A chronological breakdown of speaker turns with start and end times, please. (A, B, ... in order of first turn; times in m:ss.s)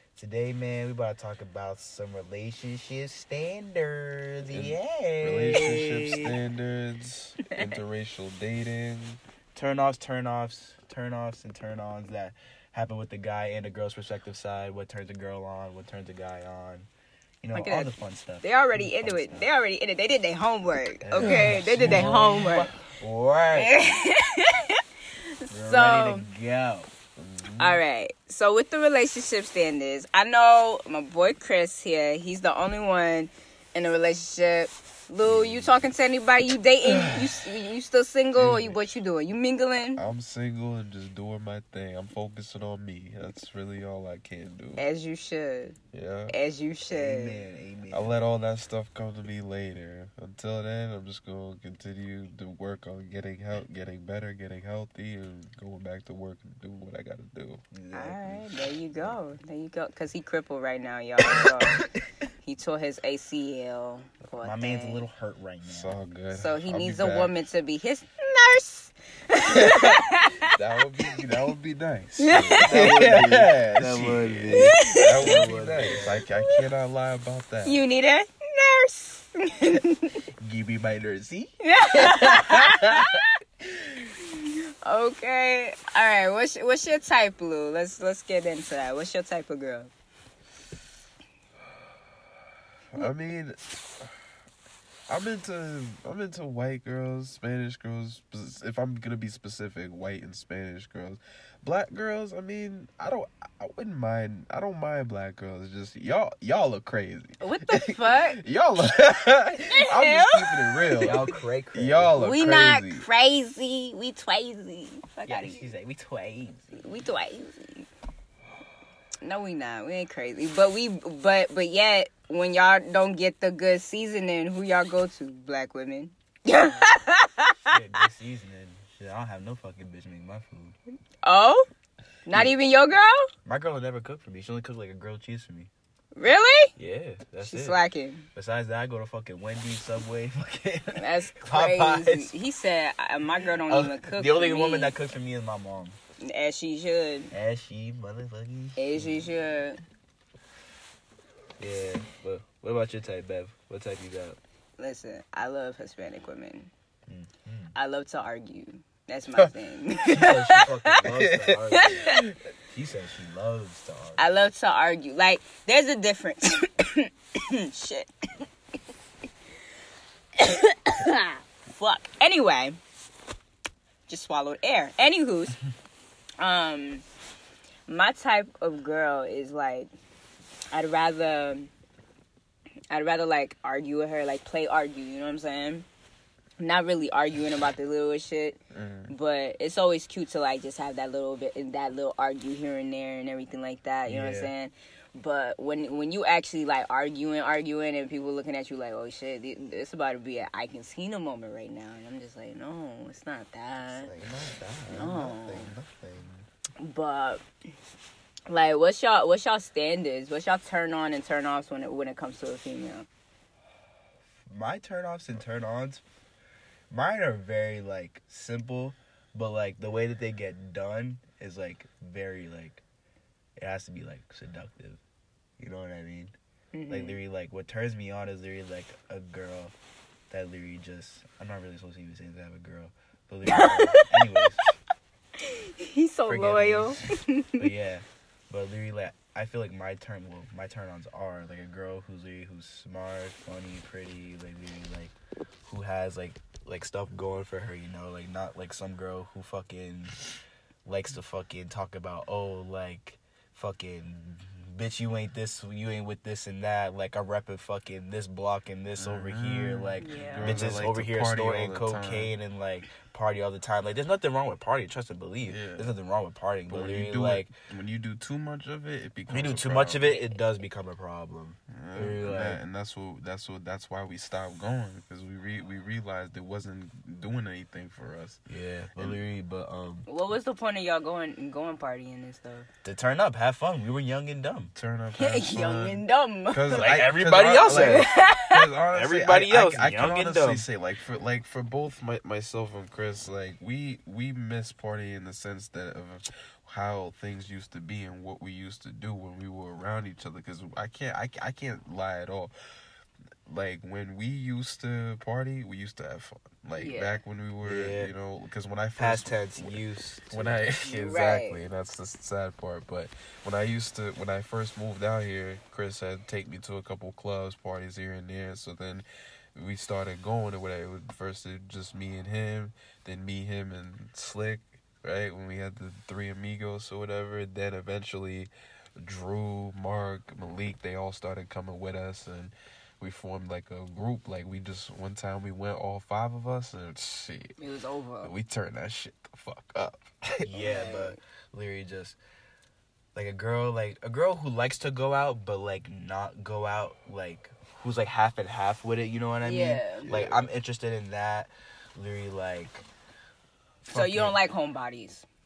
0:00.2-0:06.4 A
0:04.5-0:09.2 B
0:07.5-0:07.8 C
0:09.5-0:16.9 A
0:17.4-0:19.5 A
0:17.5-0:22.7 C
0:21.0-0:23.7 A
0:21.2-0:22.5 B
0:23.5-0:24.8 C
0:25.4-0:26.3 C
0:25.5-0:26.9 A
0:27.2-0:27.8 B
0:27.6-0:40.0 C
0:35.2-0:35.8 B
0:36.8-0:37.2 B
0:38.4-0:38.8 B
0:40.0-0:44.8 B
0:44.8-0:45.8 C
0:45.9-0:46.4 B
0:46.3-0:47.4 C
0:46.9-0:48.1 A
0:47.9-0:57.6 B
0:57.7-0:58.4 A
0:57.9-1:01.8 C
1:02.4-1:05.0 C
1:04.4-1:06.1 A
1:05.6-1:07.3 B
1:06.3-1:10.5 C
1:09.5-1:17.8 B
1:12.2-1:12.9 C
1:12.5-1:16.2 A
1:14.5-1:15.4 C
1:16.2-1:16.6 C
1:17.6-1:20.2 C
1:20.4-1:23.2 A
1:21.6-1:23.3 C
1:24.0-1:29.9 C
1:32.9-1:34.1 B
1:35.1-1:53.0 B
1:47.4-1:48.4 C
1:49.7-1:51.2 C
1:51.0-1:52.2 A
1:52.1-1:55.7 C
1:55.3-1:56.9 A
1:56.7-1:57.9 C
1:59.2-2:07.7 C
2:07.6-2:10.8 A
2:11.2-2:11.7 C
2:12.2-2:13.3 C
2:13.4-2:15.7 A
2:16.1-2:16.7 C
2:16.8-2:17.8 A
2:17.4-2:18.3 C
2:18.3-2:22.3 A
2:20.9-2:24.9 C
2:23.7-2:26.0 A
2:26.2-2:27.3 C
2:27.3-2:29.3 A
2:28.8-2:29.8 C
2:31.6-2:34.4 A
2:34.8-2:36.7 C
2:37.1-2:37.7 A
2:37.7-2:41.0 C
2:40.0-2:44.2 A
2:41.0-2:42.3 B
2:41.7-2:42.2 C
2:44.2-2:48.1 C
2:50.4-2:52.8 C
2:54.1-2:55.6 C
2:56.4-2:57.0 C
2:57.9-2:59.9 C
3:00.7-3:01.7 C
3:02.9-3:05.8 C
3:06.6-3:24.1 C
3:08.7-3:09.1 B
3:14.1-3:14.5 A
3:23.9-3:26.4 A
3:24.9-3:25.7 C
3:26.8-3:27.4 C
3:28.5-3:33.1 C
3:34.5-3:36.0 A
3:36.9-3:42.8 A
3:43.6-3:45.0 A
3:45.6-3:46.3 A
3:46.7-3:47.2 C
3:46.9-3:49.7 A
3:50.3-3:54.6 A
3:53.5-3:54.4 C
3:55.4-3:57.7 C
3:56.3-3:57.0 A
3:57.6-4:05.1 A
4:05.6-4:10.2 A
4:10.8-4:27.5 A
4:19.0-4:22.3 B
4:20.0-4:20.6 C
4:25.4-4:25.9 B
4:26.7-4:30.2 B
4:29.3-4:32.6 A
4:31.7-4:38.4 B
4:38.5-4:40.1 A
4:40.1-4:42.7 C
4:42.8-4:44.7 A
4:44.7-5:02.5 B
4:45.1-4:46.8 C
4:46.7-4:48.1 A
4:47.7-4:48.6 C
4:48.9-4:50.6 A
5:03.5-5:37.6 B
5:06.8-5:07.2 C
5:07.6-5:08.1 A
5:09.0-5:10.7 A
5:10.8-5:11.6 C
5:37.6-5:38.3 C
5:38.2-5:40.5 B
5:40.4-5:42.2 A
5:40.5-5:41.2 C
5:43.1-5:52.8 A
5:49.4-5:50.1 C
5:50.0-5:50.5 B
5:53.8-5:54.4 A
5:53.9-5:55.2 C